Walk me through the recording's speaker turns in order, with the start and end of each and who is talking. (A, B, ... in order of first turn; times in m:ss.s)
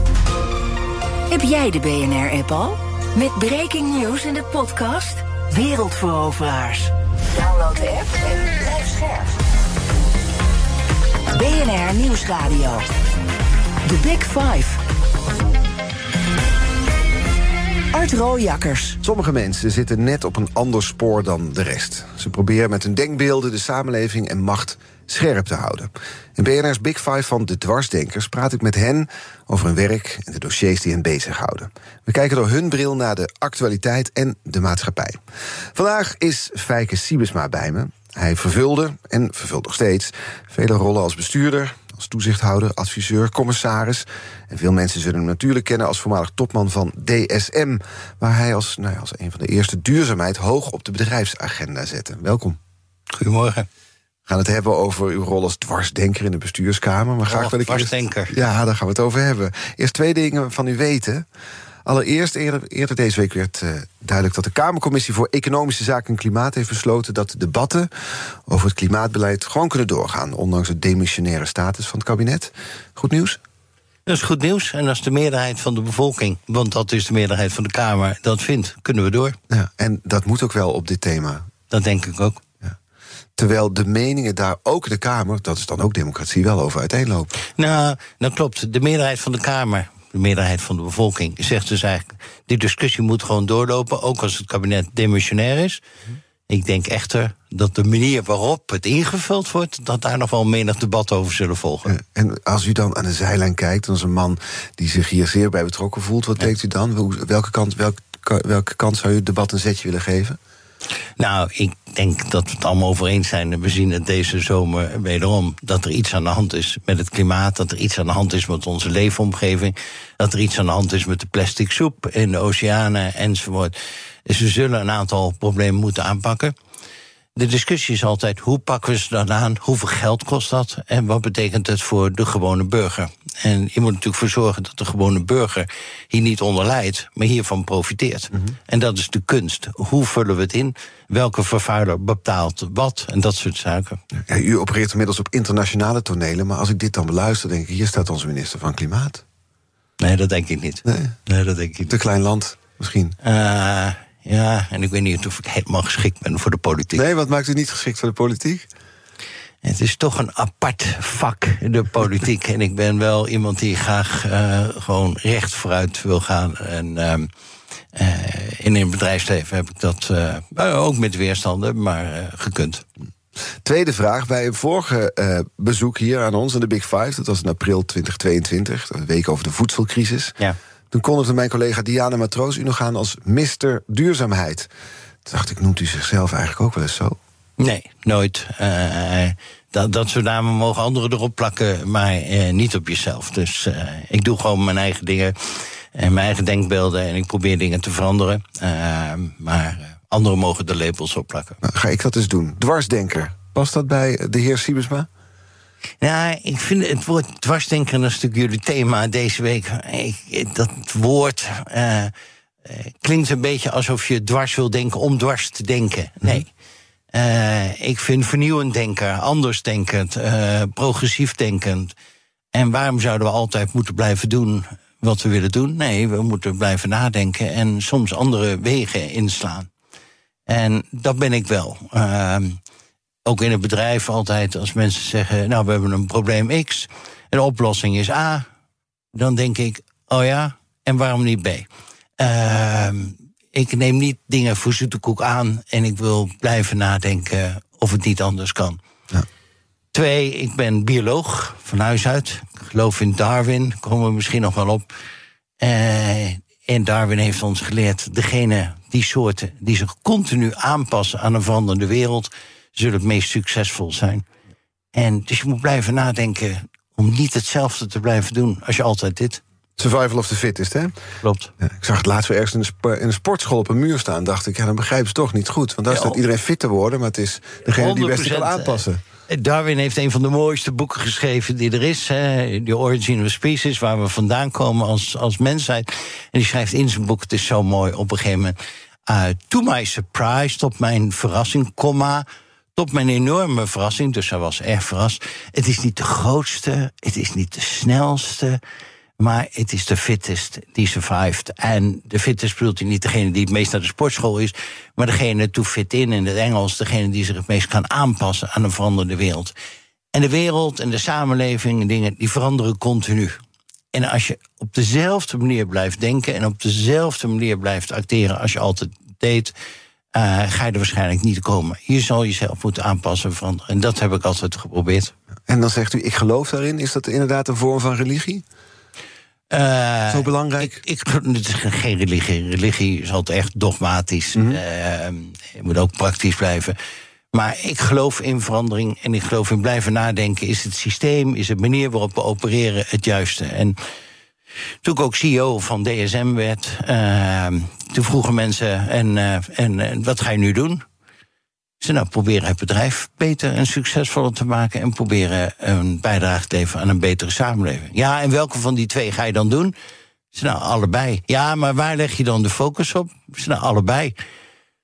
0:01.3-0:09.4 A
0:11.3-0:12.9 A
0:13.8-0:14.8 A
0:17.9-0:19.0 A
0:19.0-0:35.2 B
0:35.7-0:52.6 B
0:53.1-0:53.7 C
0:54.3-1:01.3 B
0:57.3-0:58.3 C
1:01.8-1:07.9 B
1:08.5-1:13.4 B
1:14.1-1:19.4 C
1:19.5-1:21.5 B
1:21.7-1:22.4 C
1:23.4-1:27.3 B
1:27.6-1:35.8 C
1:36.5-1:42.0 C
1:41.8-1:50.4 B
1:51.2-2:03.8 C
2:04.2-2:06.5 C
2:07.4-2:24.0 C
2:24.3-2:29.2 B
2:30.0-2:32.0 C
2:30.9-2:31.2 B
2:31.9-2:33.2 B
2:33.2-2:37.0 C
2:37.0-2:38.7 B
2:39.6-2:47.3 C
2:47.9-2:52.8 C
2:53.6-3:00.4 B
3:00.9-3:04.7 B
3:05.2-3:07.2 B
3:07.6-3:21.6 C
3:21.6-3:25.1 B
3:26.0-3:32.1 C
3:32.6-3:36.5 C
3:37.1-3:41.9 C
3:42.5-3:49.7 C
3:50.5-3:52.6 C
3:53.2-3:58.5 C
3:59.1-4:01.7 C
4:02.2-4:08.8 C
4:09.9-4:14.9 C
4:15.6-4:24.2 C
4:24.9-4:29.4 C
4:29.8-4:30.9 B
4:31.2-4:31.5 C
4:31.6-4:39.0 B
4:35.9-4:36.2 C
4:37.6-4:48.6 C
4:49.1-4:58.6 C
4:59.2-5:09.5 C
5:10.1-5:13.4 C
5:13.9-5:19.5 C
5:20.1-5:25.1 C
5:25.5-5:28.4 B
5:29.5-5:36.8 C
5:30.1-5:30.8 B
5:34.3-5:34.6 B
5:37.3-5:43.8 C
5:44.8-5:50.8 C
5:51.8-5:59.8 C
6:00.3-6:04.1 C